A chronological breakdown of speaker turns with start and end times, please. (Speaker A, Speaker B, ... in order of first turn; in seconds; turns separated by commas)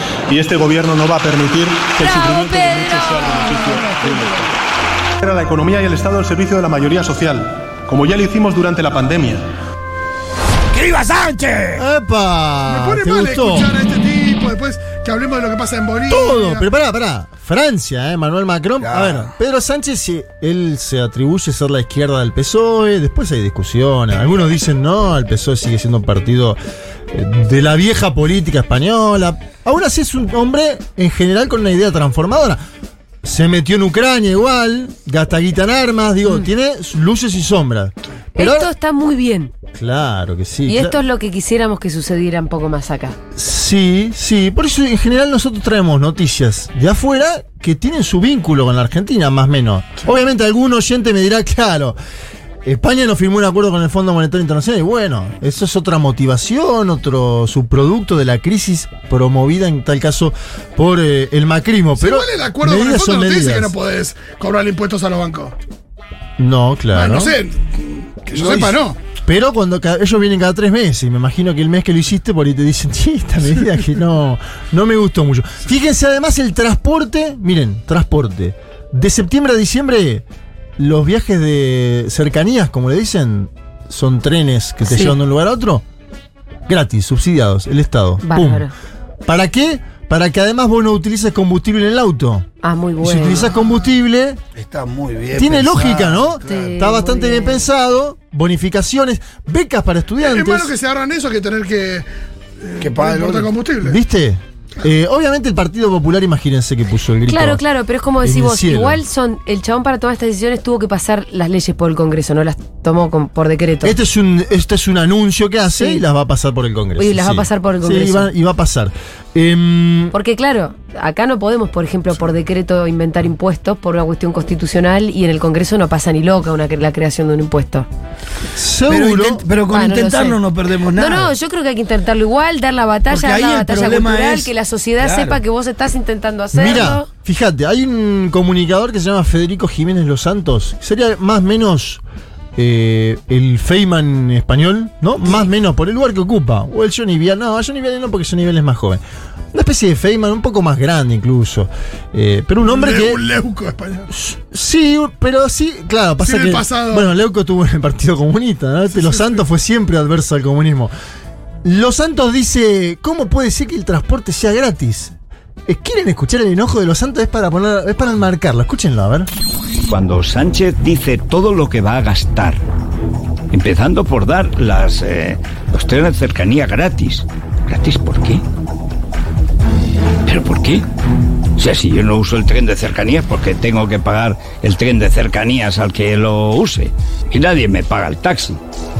Speaker A: 0.3-4.6, Speaker B: 2.0-4.4, Speaker A: 5.2-9.5, Speaker C: 10.7-11.8, Speaker D: 11.7-13.7, Speaker E: 12.7-16.6, Speaker D: 16.1-26.6, Speaker C: 18.8-19.3, Speaker D: 27.1-32.6, Speaker D: 33.2-38.7, Speaker B: 38.4-39.5, Speaker D: 39.7-41.0, Speaker B: 40.7-43.2, Speaker D: 43.3-52.0, Speaker D: 52.6-63.7, Speaker E: 62.0-65.5, Speaker D: 66.4-67.4, Speaker E: 66.9-69.0, Speaker D: 68.3-68.7, Speaker D: 69.2-80.2, Speaker D: 80.8-85.8, Speaker B: 84.8-85.2, Speaker D: 86.7-88.7, Speaker B: 88.2-88.7, Speaker D: 89.2-92.5, Speaker B: 92.6-93.5, Speaker D: 93.0-94.4, Speaker C: 94.5-96.7, Speaker D: 95.3-100.7, Speaker B: 96.4-97.7, Speaker E: 100.2-102.1, Speaker E: 102.6-104.0, Speaker C: 102.8-103.5, Speaker D: 103.8-107.6, Speaker B: 107.3-114.0, Speaker D: 108.2-109.0, Speaker D: 113.8-120.1, Speaker B: 115.8-116.0, Speaker B: 117.0-118.3, Speaker B: 120.1-127.9, Speaker D: 128.5-129.4, Speaker C: 128.9-131.3, Speaker B: 129.7-130.4, Speaker B: 130.9-137.1, Speaker C: 133.1-135.4, Speaker D: 136.5-142.0, Speaker D: 142.6-153.2, Speaker E: 152.6-154.1, Speaker D: 154.1-160.9, Speaker E: 156.2-157.1, Speaker D: 161.6-165.1, Speaker D: 165.7-169.3, Speaker F: 169.9-172.6, Speaker F: 173.5-178.4, Speaker F: 180.2-180.8, Speaker F: 181.6-188.6